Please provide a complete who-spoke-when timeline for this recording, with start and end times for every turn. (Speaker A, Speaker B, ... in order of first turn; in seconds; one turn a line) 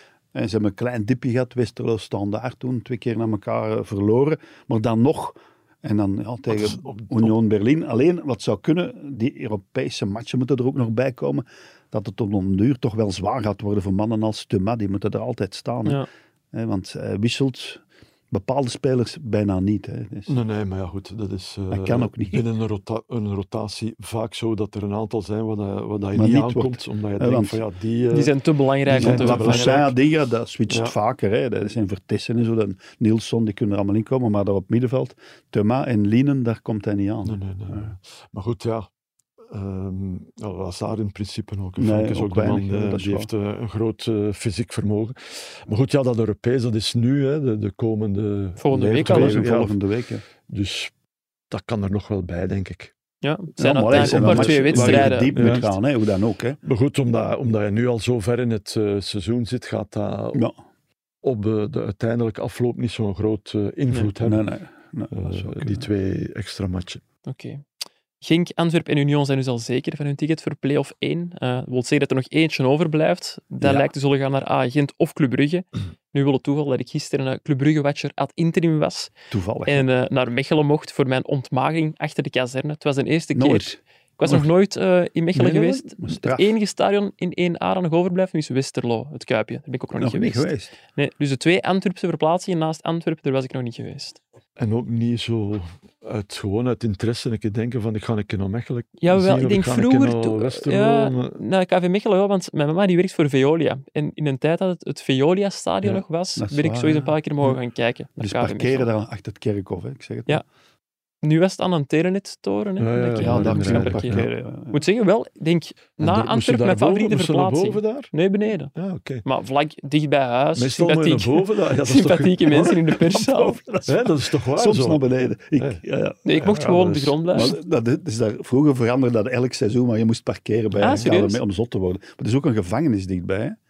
Speaker A: 0.3-20.3
Speaker B: 6.5-7.4
Speaker B: 20.3-28.3
Speaker A: 21.7-22.4
Speaker A: 26.1-27.6
Speaker C: 28.1-29.9
Speaker B: 28.9-29.9
Speaker A: 28.9-37.9
Speaker B: 30.7-31.0
Speaker B: 37.2-38.9
Speaker B: 39.5-49.8
Speaker A: 41.8-43.3
Speaker C: 48.6-49.4
Speaker A: 49.0-50.2
Speaker B: 50.5-50.9
Speaker B: 51.5-52.9
Speaker C: 53.2-55.7
Speaker A: 53.6-56.6
Speaker B: 53.9-55.7
Speaker B: 56.6-60.5
Speaker B: 61.2-64.5
Speaker A: 64.2-65.9
Speaker B: 65.1-67.0
Speaker C: 67.2-67.6
Speaker C: 68.2-79.1
Speaker A: 73.6-73.9
Speaker A: 79.3-79.9
Speaker C: 79.7-94.2
Speaker A: 83.3-84.4
Speaker A: 85.4-86.5
Speaker A: 90.0-90.7
Speaker B: 94.6-101.4
Speaker C: 99.0-108.9
Speaker A: 106.4-107.1
Speaker A: 108.2-110.4
Speaker C: 111.2-118.7
Speaker B: 112.8-114.3
Speaker A: 113.2-114.8
Speaker B: 116.0-118.1
Speaker B: 118.8-119.2
Speaker C: 119.2-123.6
Speaker B: 120.5-123.0
Speaker A: 123.1-133.6
Speaker B: 123.9-125.8
Speaker C: 126.2-127.5
Speaker B: 126.4-127.5
Speaker B: 130.8-131.1
Speaker C: 130.8-131.4